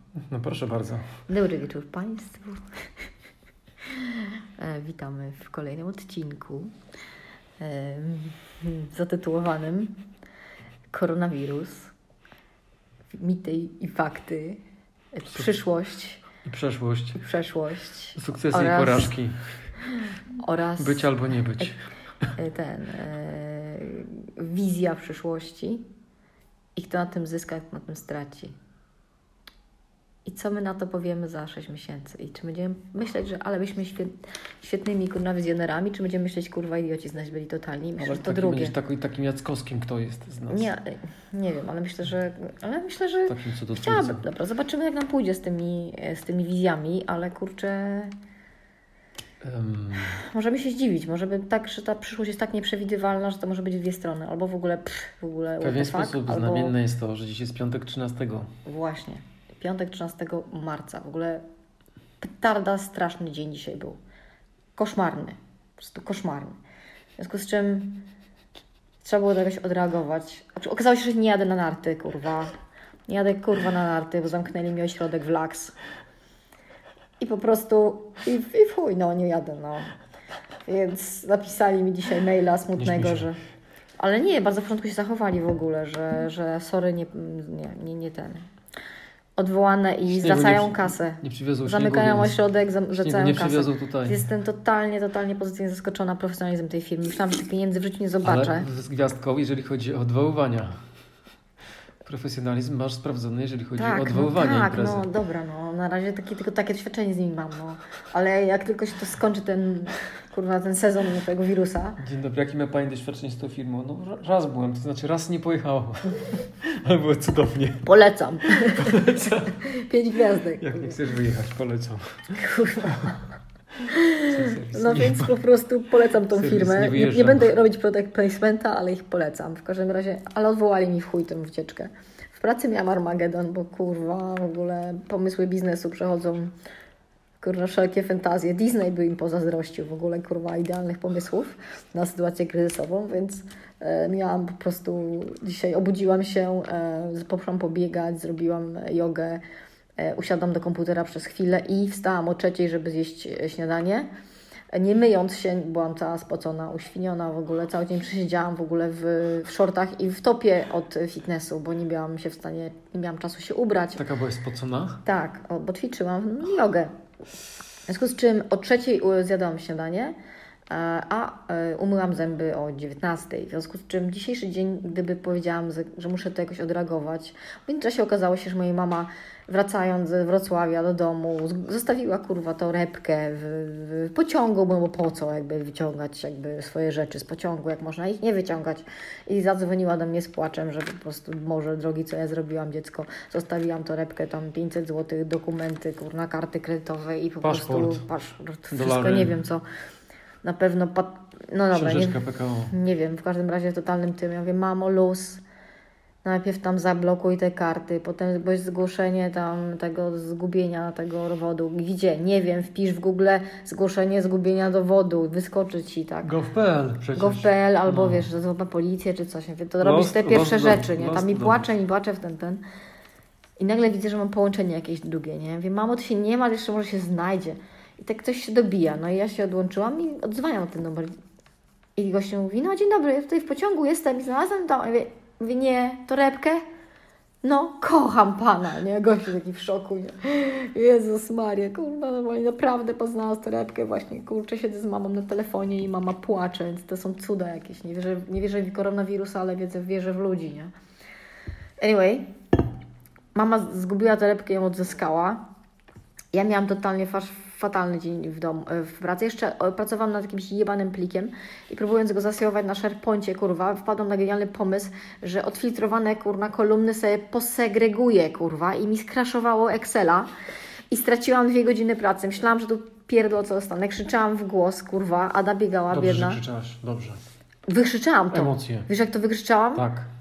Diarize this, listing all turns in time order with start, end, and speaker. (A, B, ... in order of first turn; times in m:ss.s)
0:00.2-0:01.1 A
0:01.3-0:02.7 B
0:03.8-0:06.7 B
0:07.6-0:10.0 B
0:10.9-0:11.9 B
0:13.1-0:14.6 B
0:15.1-0:16.3 B
0:16.4-0:17.2 A
0:17.2-0:19.1 B
0:18.2-0:19.5 A
0:19.9-0:21.7 B
0:20.8-0:21.8 A
0:22.4-0:25.9 B
0:26.8-0:28.6 B
0:30.2-0:38.8 B
0:38.0-0:40.7 A
0:40.5-0:48.1 B
0:43.3-0:44.2 A
0:49.4-0:50.2 A
0:50.1-0:56.7 B
0:55.6-0:58.5 A
0:58.7-1:01.4 B
1:02.2-1:04.0 B
1:04.8-1:06.6 B
1:07.2-1:08.1 B
1:09.0-1:12.5 B
1:13.1-1:15.8 B
1:17.2-1:19.9 B
1:20.7-1:23.4 B
1:22.8-1:23.3 A
1:24.0-1:28.5 B
1:29.4-1:38.7 B
1:30.1-1:32.4 A
1:33.0-1:34.2 A
1:38.2-1:40.8 A
1:42.0-1:45.1 A
1:43.8-1:52.0 B
1:52.0-1:57.9 A
1:57.8-2:01.0 B
1:58.6-1:59.6 A
2:00.6-2:02.4 A
2:02.4-2:16.5 B
2:04.3-2:05.4 A
2:06.3-2:07.5 A
2:17.4-2:29.4 B
2:30.0-2:34.1 B
2:34.7-2:44.0 B
2:44.0-2:45.0 A
2:45.0-2:46.9 B
2:47.9-2:50.2 B
2:50.7-3:19.6 B
3:17.4-3:18.0 A
3:18.7-3:19.4 A
3:20.4-3:25.4 B
3:21.7-3:22.8 A
3:26.2-3:36.3 B
3:36.2-3:38.3 A
3:37.2-3:42.6 B
3:39.8-3:41.7 A
3:43.6-3:51.2 B
3:52.0-3:56.6 B
3:57.4-4:10.7 B
4:11.8-4:12.4 B
4:13.4-4:15.4 B
4:16.3-4:30.3 B
4:30.9-4:36.4 B
4:35.9-4:37.2 A
4:37.7-4:39.9 B
4:38.3-4:38.9 A
4:39.7-4:40.1 A